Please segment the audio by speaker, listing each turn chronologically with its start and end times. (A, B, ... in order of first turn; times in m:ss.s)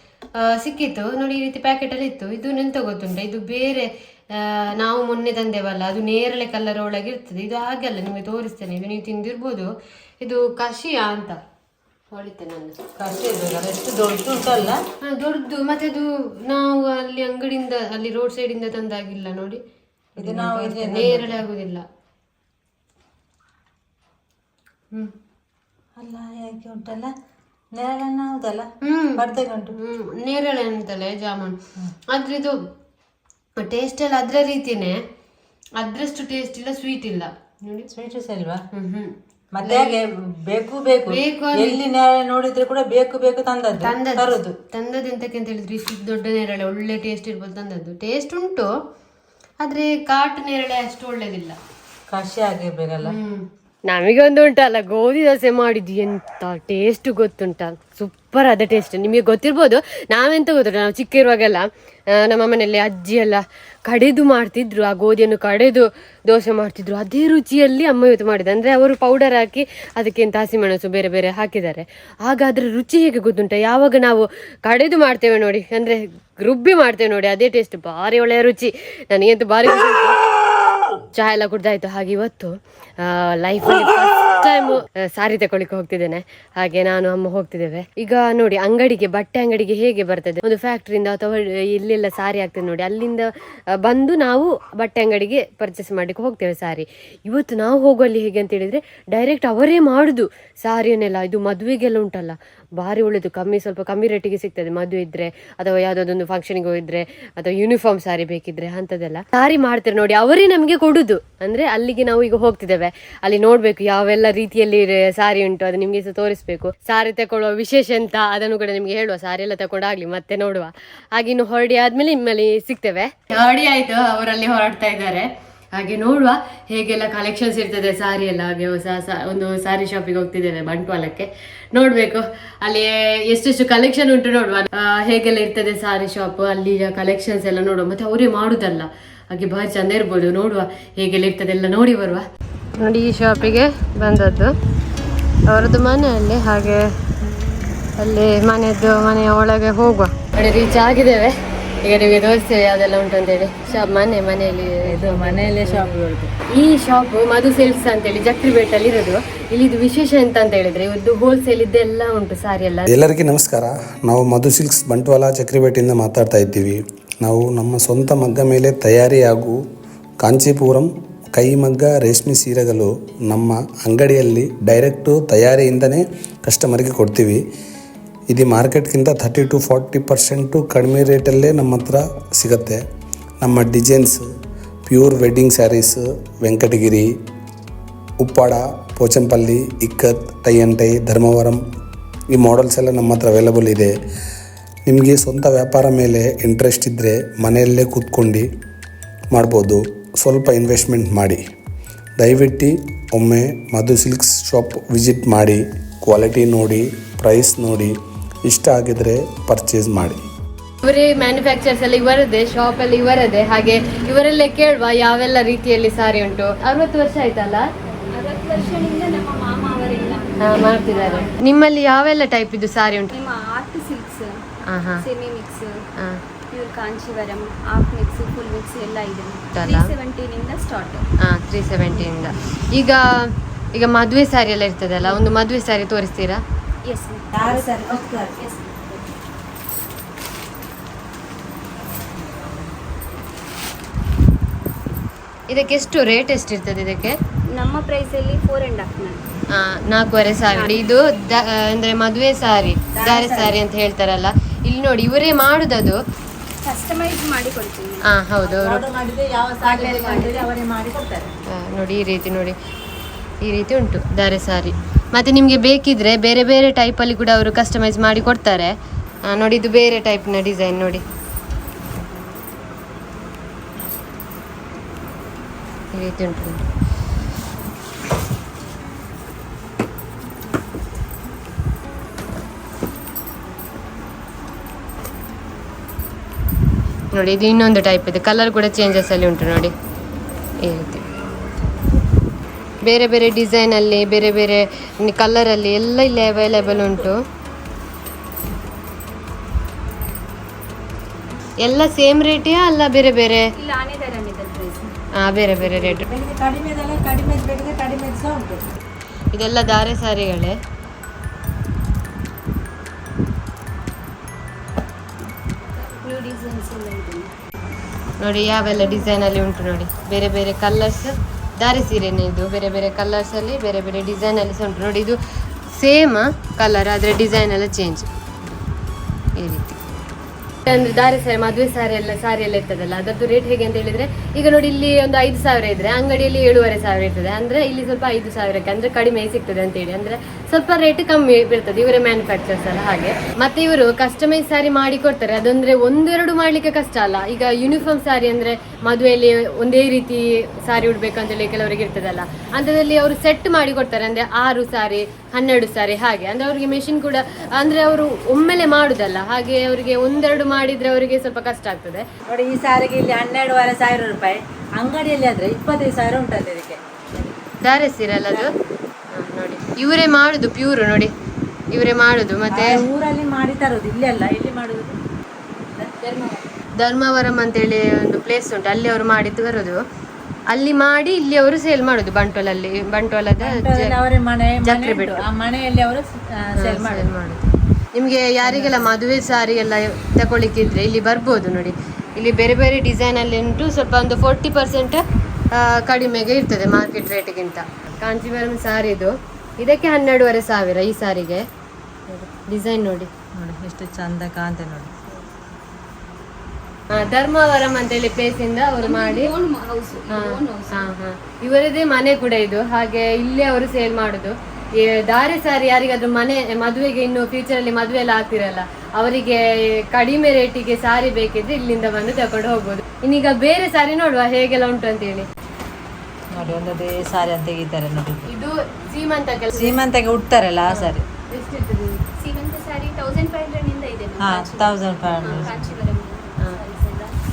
0:00.4-0:11.4 A
0:12.1-0:12.8 A
0:13.0-0:14.8 B
0:15.0-0:19.6 A
0:20.2-0:21.4 B
0:20.2-0:21.8 A
0:26.0-0:27.1 B
0:27.7-0:29.7 B
0:28.8-0:31.6 A
0:32.1-0:32.6 A
0:33.6-0:35.0 A
0:35.8-0:37.9 A
0:37.9-0:38.6 B
0:38.7-0:40.0 A
0:39.5-0:44.6 B
0:41.1-0:41.8 A
0:43.8-0:48.7 A
0:49.6-0:51.6 A
0:52.1-0:53.2 B
0:53.0-1:20.2 A
1:21.1-1:33.3 A
1:33.8-2:22.2 A
2:22.8-2:24.5 A
2:25.5-2:26.9 A
2:28.0-2:36.0 A
2:34.8-2:36.3 B
2:36.5-2:42.9 A
2:42.9-2:49.6 C
2:50.2-2:57.4 C
2:58.3-3:02.8 C
3:03.4-3:04.2 C
3:04.8-3:07.1 C
3:08.2-3:11.6 C
3:12.3-3:13.9 C
3:14.8-3:18.5 C
3:19.3-3:21.4 C
3:22.2-3:27.9 C
3:28.4-3:30.2 C
3:30.8-3:37.6 A
3:38.1-3:41.3 D
3:40.4-3:43.1 A
3:43.1-3:44.3 D
3:44.6-3:45.0 A
3:45.0-3:45.8 D
3:46.5-3:51.1 D
3:49.5-3:49.9 A
3:51.2-3:56.4 A
3:56.8-3:59.0 D
3:57.3-3:58.5 B
4:05.5-4:07.2 A
4:07.5-4:09.2 D
4:09.5-4:16.0 A
4:10.4-4:10.7 D
4:13.0-4:13.6 B
4:16.6-4:18.1 D
4:18.0-4:18.8 A
4:18.4-4:21.3 B
4:19.6-4:20.5 D
4:21.5-4:22.6 A
4:23.4-4:28.7 A
4:29.3-4:31.0 A
4:35.9-4:36.6 A
4:47.1-4:49.7 A
4:50.6-4:51.0 A
4:52.8-4:57.2 A
4:56.4-4:57.1 D
5:01.6-5:03.5 A
5:03.5-5:04.9 D
5:05.1-5:06.0 A
5:05.6-5:08.7 B
5:09.3-5:10.6 A
5:15.8-5:17.3 D
5:18.2-5:28.1 A
5:29.4-5:29.8 A
5:30.6-6:02.0 A
6:02.3-6:07.3 B
6:07.6-6:08.5 A
6:09.1-6:11.1 A
6:11.7-6:12.9 A
6:12.5-6:15.0 B
6:15.7-6:16.2 B
6:16.8-6:19.8 A
6:20.5-6:24.0 A
6:23.4-6:27.1 B
6:24.6-6:25.3 A
6:26.6-6:35.0 A
6:28.4-6:28.9 B
6:35.5-6:41.4 A
6:42.1-6:43.1 A
6:43.4-6:44.9 B
6:46.9-6:49.3 A
6:48.8-6:50.9 D
6:50.1-7:05.3 A
7:06.3-7:08.2 B
7:08.2-7:09.8 A
7:09.5-7:11.0 B
7:10.7-7:12.0 A
7:12.2-7:17.2 D
7:14.2-7:15.7 B
7:15.2-7:15.5 A